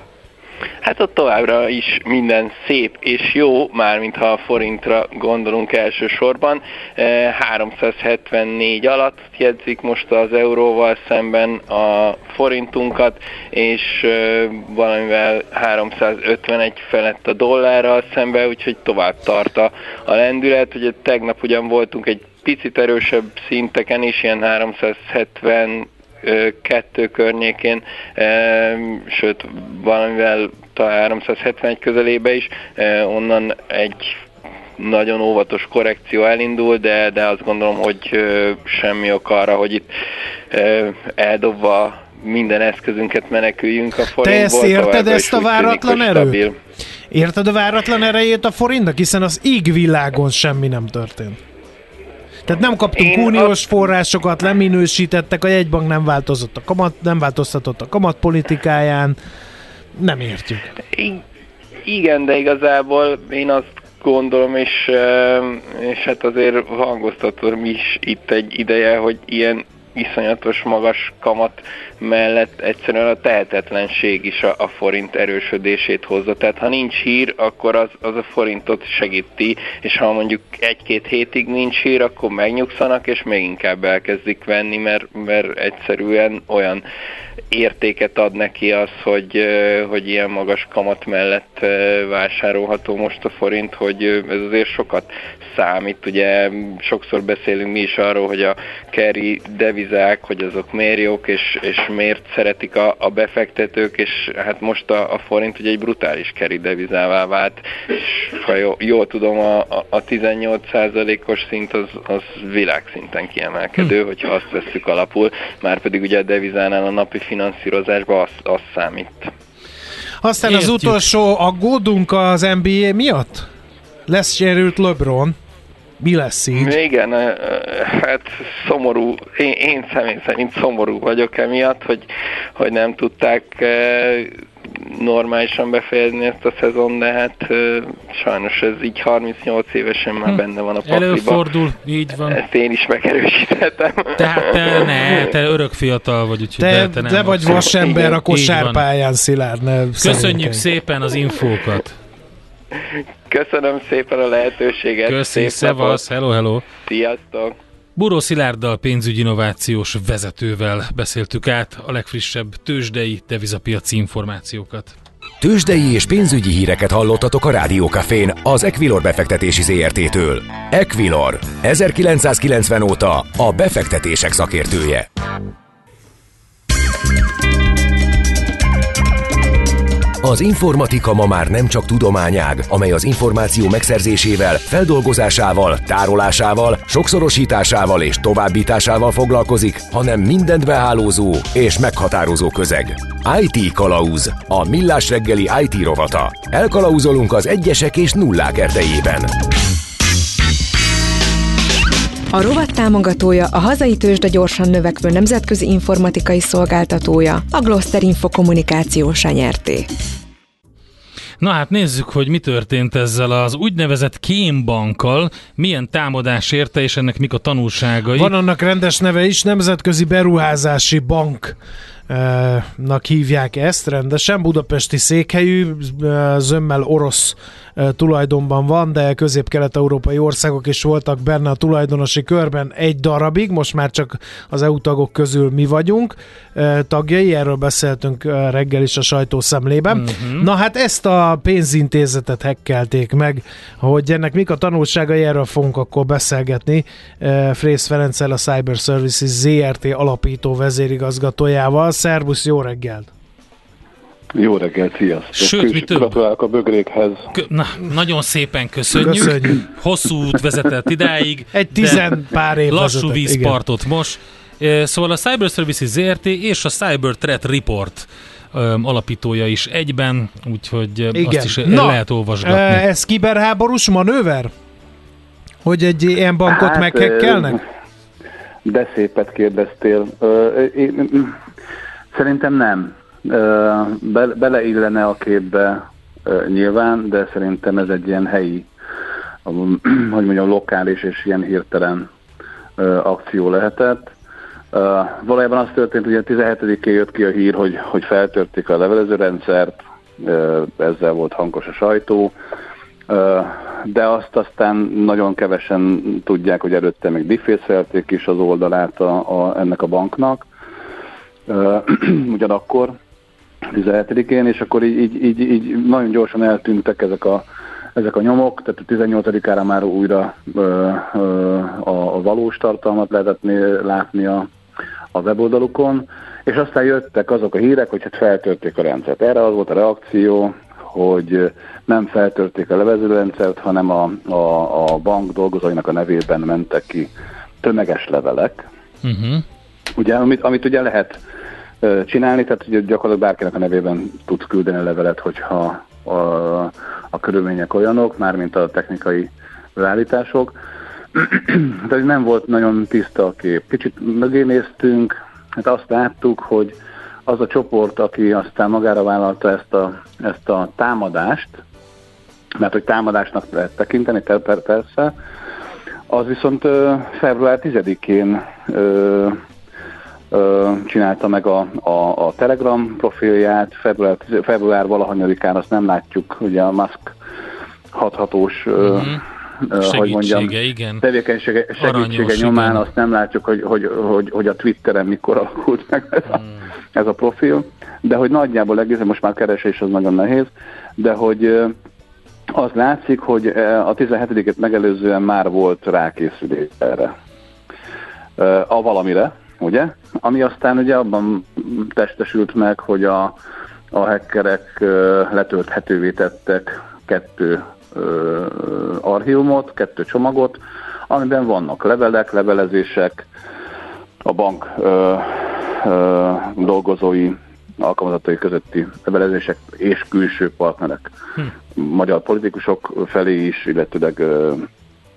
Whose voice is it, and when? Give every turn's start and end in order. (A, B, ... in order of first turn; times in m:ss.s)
0:00.8-0:34.2 A
0:34.8-0:39.9 A
0:40.5-0:46.6 A
0:44.2-0:46.4 B
0:47.1-0:51.4 B
0:52.5-0:59.2 B
0:53.0-0:53.7 A
1:00.0-1:00.7 B
1:00.9-1:01.2 A
1:01.9-1:26.8 A
1:27.5-1:59.3 A
2:00.2-2:03.5 B
2:00.5-2:01.0 C
2:04.1-2:05.4 B
2:06.0-2:06.8 B
2:06.5-2:21.4 A
2:20.3-2:22.4 C
2:22.3-2:24.9 A
2:24.2-2:28.8 C
2:26.6-2:30.6 B
2:30.0-2:32.0 C
2:32.8-2:36.0 A
2:35.0-2:36.6 C
2:36.8-2:37.6 A
2:38.0-2:45.0 C
2:45.4-2:55.1 D
3:00.2-3:19.3 D
3:22.3-3:29.9 E
3:31.4-3:38.3 C
3:38.1-3:41.6 B
3:42.1-4:13.1 B
3:59.9-4:00.5 C
4:14.4-4:17.3 F
4:15.3-4:16.2 C
4:17.3-4:32.8 C
4:19.0-4:19.6 B
4:21.5-4:23.6 B
4:31.1-4:34.5 B
4:35.6-4:37.6 B
4:36.5-4:37.6 F
4:38.6-4:41.4 F
4:42.1-4:48.7 F
4:49.5-4:52.1 F
4:52.8-4:54.1 F
4:54.7-5:02.4 F
5:03.1-5:10.5 F
5:11.5-5:13.0 F
5:13.7-5:17.4 F
5:18.0-5:24.5 F
5:25.1-5:37.1 F
5:37.6-5:38.7 F
5:39.0-5:39.4 C
5:40.0-5:41.2 F
5:41.8-5:50.6 F
5:51.1-5:56.8 F
5:57.3-6:01.6 F
6:02.6-6:05.1 F
6:06.1-6:09.4 F
6:10.3-6:17.2 F
6:17.9-6:31.8 F
6:18.8-6:19.2 C
6:19.8-6:21.0 C
6:21.8-6:22.9 C
6:32.5-6:37.1 F
6:38.4-6:43.4 F
6:43.9-6:53.3 F
6:54.2-7:01.1 F
7:01.8-7:04.7 F